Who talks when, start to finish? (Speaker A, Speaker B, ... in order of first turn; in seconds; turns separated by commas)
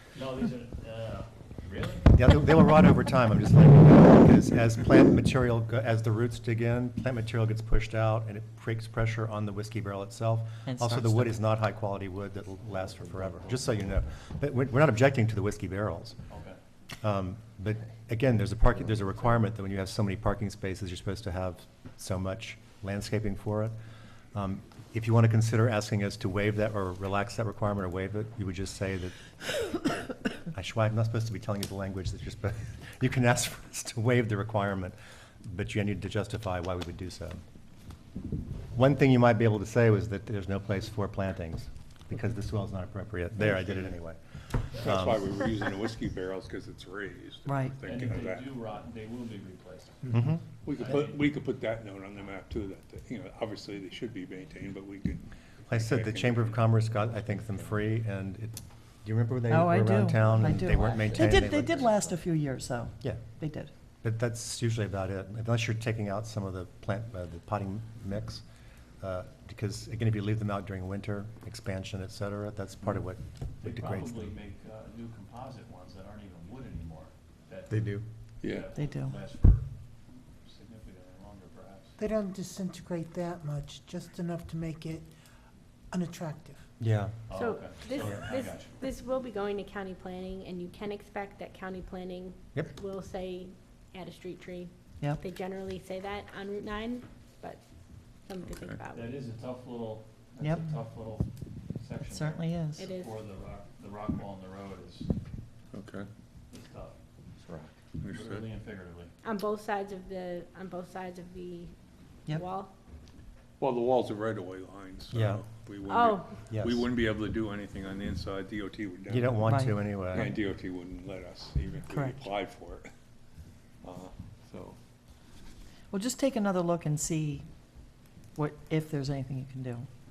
Speaker A: 0.1-2.0, Speaker B: 2.1-16.2, Speaker C: 10.7-11.3, Speaker A: 16.3-16.6, Speaker B: 17.0-23.7, Speaker B: 24.3-29.2, Speaker B: 30.5-37.4, Speaker B: 38.7-44.2, Speaker B: 44.7-45.4, Speaker D: 44.8-48.6, Speaker C: 47.5-47.8, Speaker A: 47.8-50.1, Speaker B: 50.1-50.4, Speaker D: 50.6-56.8, Speaker A: 50.7-51.2, Speaker B: 55.7-62.2, Speaker C: 59.5-63.7, Speaker B: 64.0-68.4, Speaker B: 69.0-74.3, Speaker A: 73.6-79.6, Speaker D: 78.4-78.7, Speaker C: 78.7-79.2, Speaker A: 80.4-82.0, Speaker E: 82.0-85.1, Speaker E: 85.9-86.7, Speaker B: 86.8-87.2, Speaker A: 87.3-88.7, Speaker F: 87.3-97.6, Speaker F: 98.2-99.2, Speaker D: 98.4-98.8, Speaker A: 98.9-101.2, Speaker C: 100.4-100.7, Speaker A: 101.8-105.1, Speaker C: 102.1-102.9, Speaker F: 102.8-103.2, Speaker D: 105.7-106.1, Speaker A: 106.5-106.9, Speaker D: 108.0-108.5, Speaker A: 108.1-109.1, Speaker F: 109.2-111.7, Speaker F: 112.3-112.7, Speaker D: 113.6-119.5, Speaker B: 115.1-115.4, Speaker F: 115.9-116.3, Speaker B: 116.5-116.9, Speaker B: 119.1-120.3, Speaker C: 119.4-120.2, Speaker D: 120.1-122.9, Speaker C: 121.9-122.3, Speaker D: 123.8-124.8, Speaker C: 125.9-127.5, Speaker C: 128.4-129.9